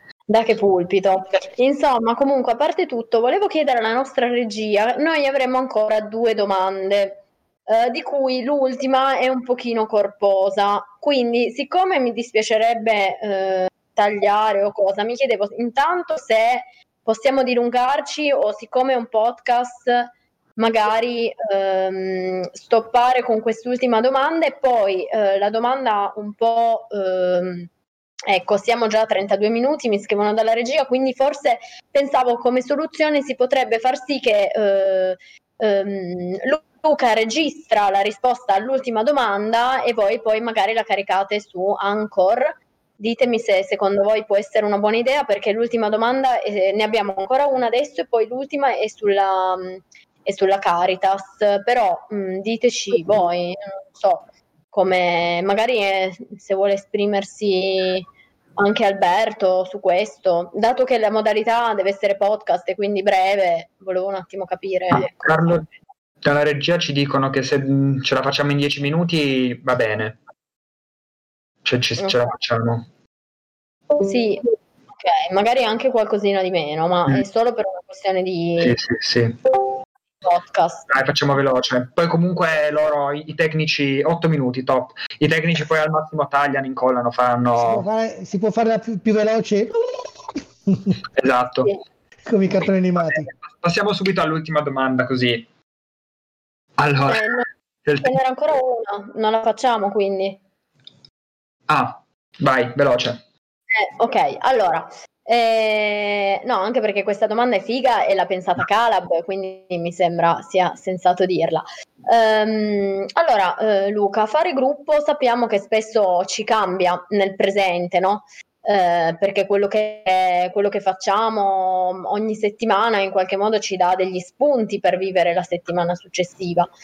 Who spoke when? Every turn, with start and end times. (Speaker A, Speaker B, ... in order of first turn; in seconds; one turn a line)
Speaker A: 0.3-27.7
Speaker A: 28.3-58.1
Speaker A: 58.6-65.7
Speaker B: 64.9-65.7
Speaker B: 66.2-70.2
Speaker B: 71.7-72.9
Speaker A: 72.0-72.3
Speaker A: 74.0-78.8
Speaker B: 78.6-79.4
Speaker A: 80.2-80.9
Speaker B: 80.9-87.9
Speaker C: 87.6-90.1
Speaker C: 90.7-91.0
Speaker B: 91.1-91.7
Speaker C: 92.3-93.3
Speaker B: 93.1-95.5
Speaker B: 96.8-97.3
Speaker A: 97.1-97.5
Speaker B: 97.9-98.2
Speaker A: 98.0-100.4
Speaker B: 101.7-103.2
Speaker A: 103.8-126.7